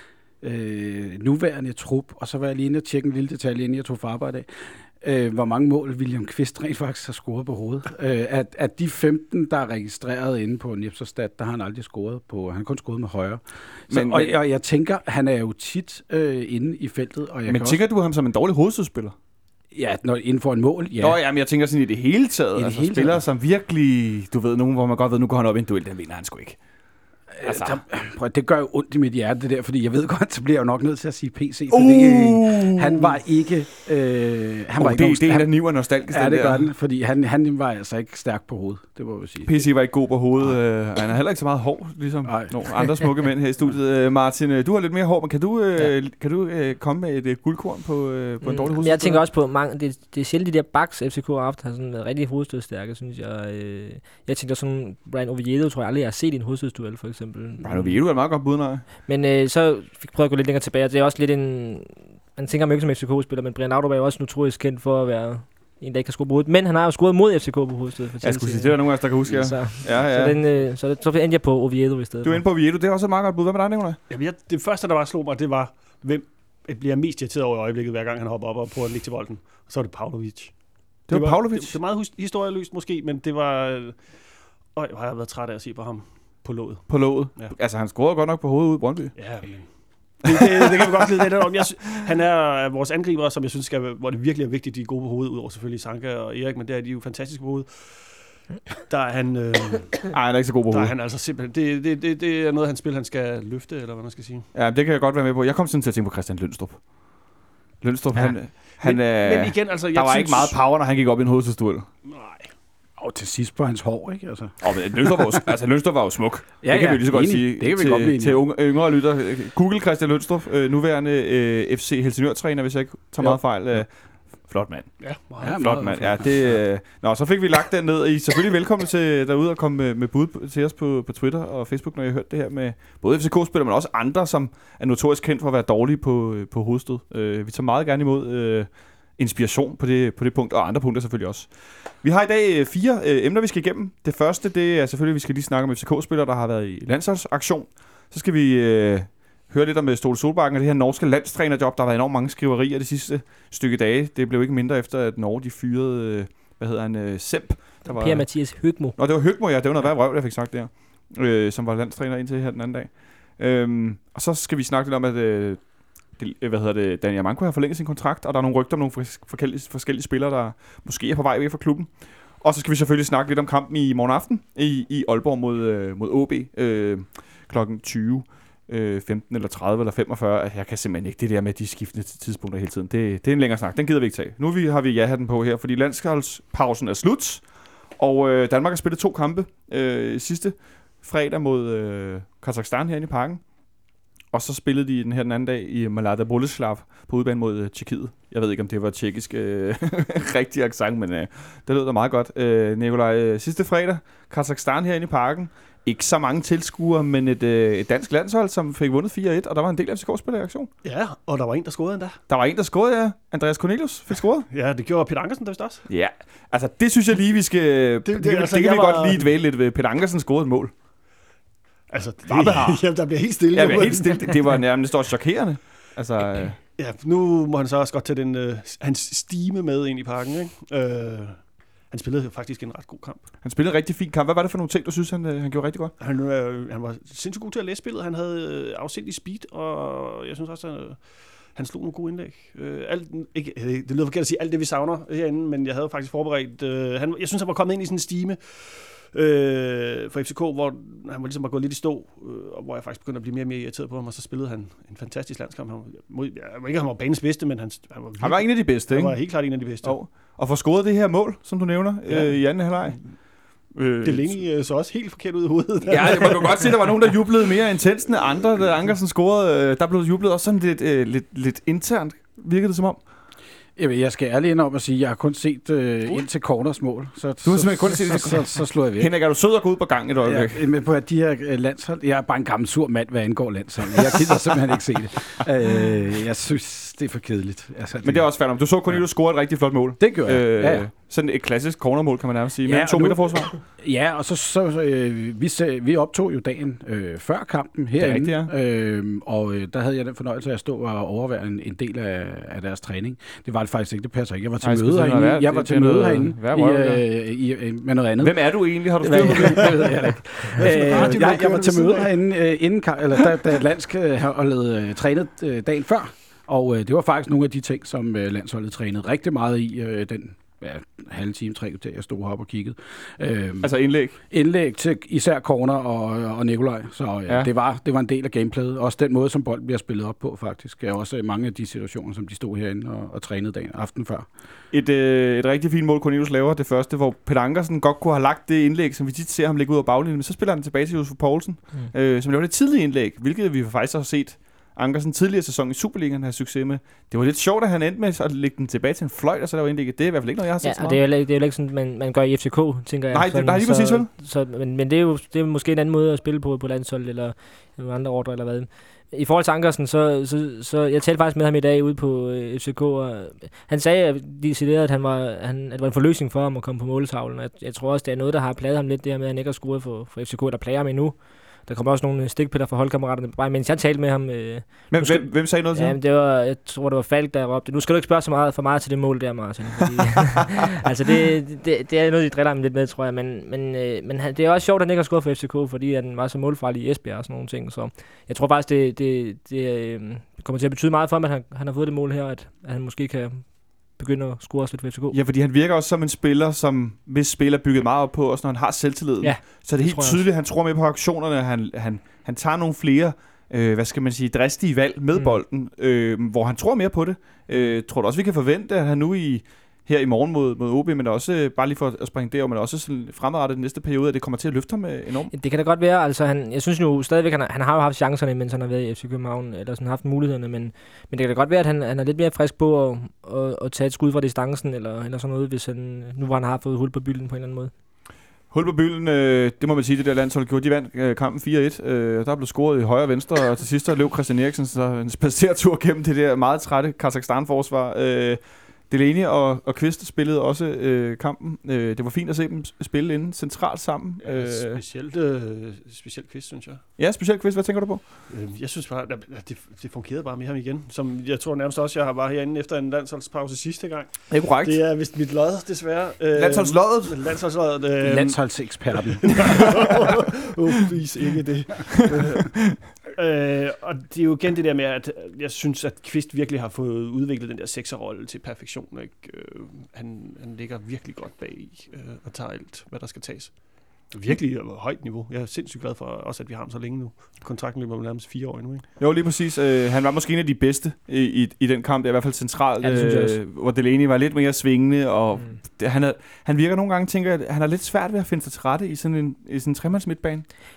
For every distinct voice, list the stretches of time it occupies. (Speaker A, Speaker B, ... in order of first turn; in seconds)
Speaker A: 0.4-17.8, 19.7-21.2, 22.6-23.2, 27.3-39.7, 42.2-43.1, 113.0-115.5, 116.6-118.5, 123.2-123.8, 125.4-126.7, 273.8-279.3, 280.2-290.9, 292.6-334.3, 458.0-459.8
Speaker B: 13.9-14.3, 17.5-19.1, 21.0-26.6, 27.4-27.8, 31.7-33.2, 34.8-36.7, 39.4-49.2, 57.6-58.9, 68.2-70.4, 72.2-74.0, 81.1-81.8, 86.9-89.8, 100.1-100.9, 104.5-111.9, 114.6-193.7, 194.3-210.7, 212.3-214.5, 215.9-220.7, 222.3-226.6, 233.4-235.9, 258.2-264.4, 265.9-273.0, 277.4-280.6, 288.0-293.5, 297.9-298.5, 304.6-307.0, 308.2-310.2, 323.6-324.2, 334.7-351.0, 353.1-354.1, 374.9-376.0, 395.1-415.3, 428.5-444.8, 447.0-448.0, 454.3-454.8, 456.3-457.4, 479.0-490.5
Speaker C: 48.4-58.0, 59.0-72.4, 157.8-158.9, 350.6-395.2, 399.2-400.3, 405.1-405.4, 407.5-407.8, 415.3-427.7, 482.8-483.4
Speaker D: 74.1-87.5, 89.1-100.1, 100.7-104.5, 108.1-110.6, 112.0-112.5, 125.0-125.5, 210.8-212.2, 214.5-215.9, 218.0-219.3, 221.9-224.6, 226.8-233.3, 236.0-260.0, 262.1-263.2, 264.0-266.8, 310.5-312.1, 444.2-446.8, 448.3-478.9